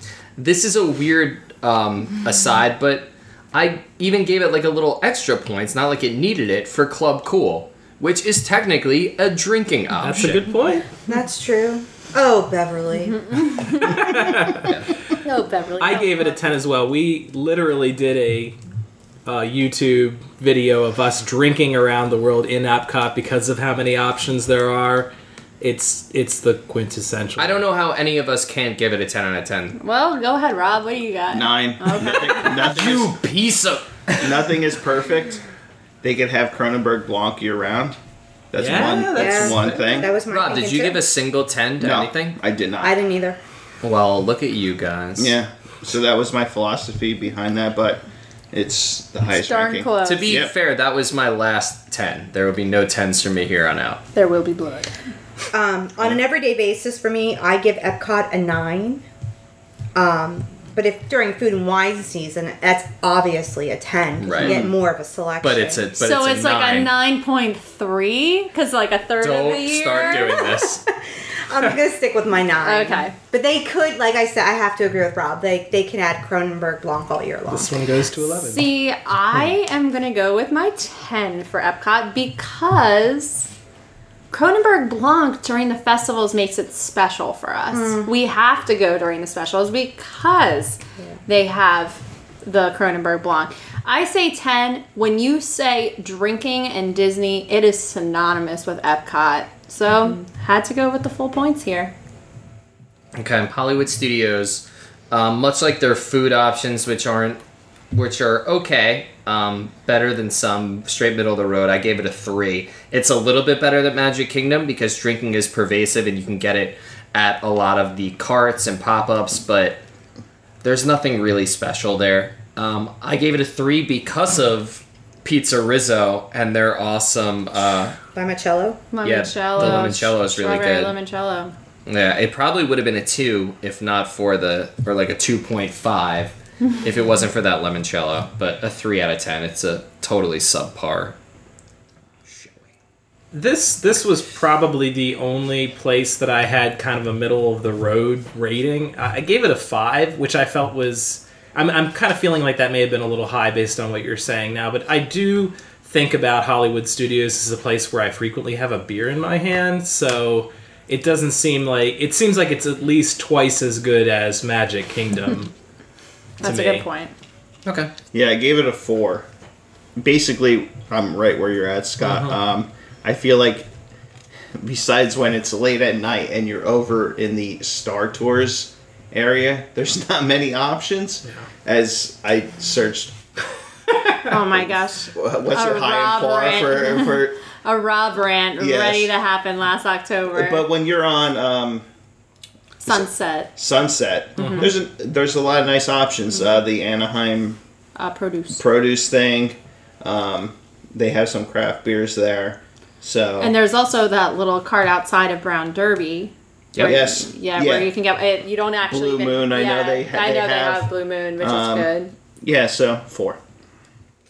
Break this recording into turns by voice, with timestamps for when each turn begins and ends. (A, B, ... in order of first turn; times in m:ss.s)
0:00.4-0:10.5 A
0:10.0-0:10.9 B
0:11.1-0:14.6 C
0:13.3-0:14.3 D
0:14.2-0:14.7 B
0:14.6-0:15.0 A
0:15.2-0:16.5 D
0:15.8-0:18.6 B
0:19.2-0:25.1 B
0:25.6-0:27.6 B
0:27.4-0:29.8 A
0:29.8-0:32.7 D
0:31.3-0:33.2 E
0:32.6-0:34.2 A
0:34.2-0:35.4 E
0:36.0-0:38.0 E
0:38.5-0:40.2 E
0:38.6-0:40.1 B
0:39.1-0:41.0 C
0:40.3-0:42.4 A
0:41.8-0:43.0 E
0:42.8-0:43.4 C
0:43.8-0:45.4 A
0:45.2-0:50.5 E
0:49.3-0:50.4 D
0:50.0-0:54.0 A
0:54.1-0:54.9 D
0:55.5-0:59.0 C
1:00.0-1:05.8 C
1:04.2-1:04.7 A
1:04.4-1:04.7 E
1:05.4-1:06.9 A
1:06.0-1:10.6 D
1:09.2-1:10.8 A
1:11.2-1:17.8 C
1:12.6-1:13.1 D
1:17.5-1:18.7 B
1:18.2-1:23.5 D
1:24.3-1:41.9 D
1:27.7-1:28.1 C
1:43.2-1:47.4 A
1:47.9-1:59.8 A
2:00.6-2:08.0 A
2:08.1-2:08.8 C
2:08.9-2:11.5 D
2:09.0-2:11.0 A
2:11.9-2:21.2 A
2:23.3-2:45.5 B
2:46.4-2:47.1 D
2:46.4-2:46.8 B
2:47.6-2:47.9 A
2:48.1-2:49.3 E
2:50.0-2:53.7 E
2:52.0-2:52.4 B
2:54.6-3:03.2 E
3:04.2-3:10.7 D
3:04.4-3:07.4 E
3:08.6-3:09.1 E
3:10.3-3:11.9 E
3:12.8-3:13.5 D
3:12.9-3:17.6 E
3:14.4-3:14.7 D
3:14.4-3:14.7 B
3:18.0-3:18.6 D
3:18.5-3:23.6 E
3:23.4-3:32.1 D
3:26.8-3:27.9 E
3:28.9-3:33.4 E